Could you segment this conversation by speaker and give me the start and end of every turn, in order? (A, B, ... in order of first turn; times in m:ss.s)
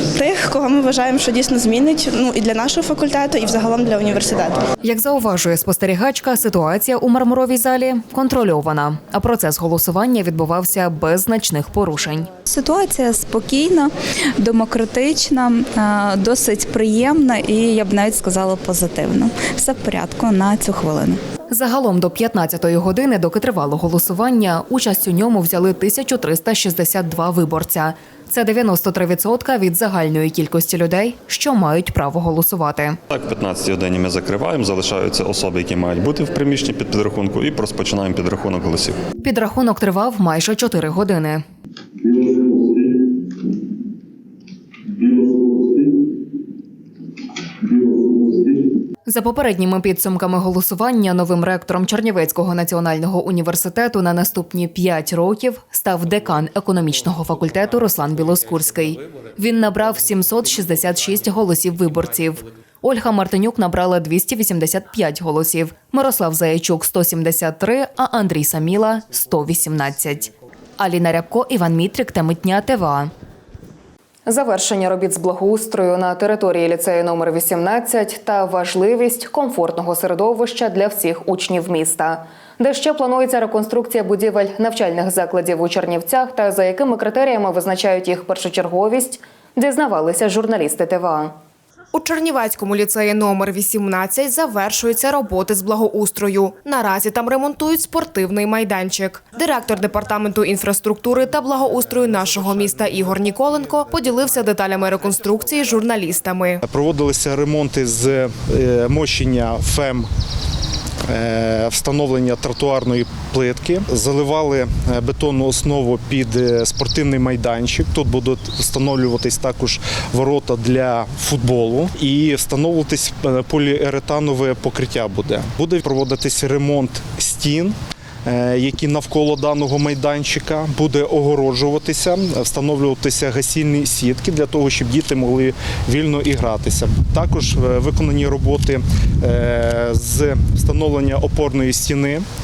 0:00.2-0:04.5 A
0:04.8-0:12.3 B
0:12.4-0:21.2 C
0:21.5-0:33.0 B
0:33.1-0:39.0 D
0:39.2-0:41.4 B
0:42.1-0:42.9 D
0:45.1-0:45.8 D
0:47.8-0:48.4 D
0:49.0-1:13.1 B
1:14.3-1:31.3 B
1:31.9-1:46.6 E
1:46.6-1:50.1 F
1:51.1-2:22.2 F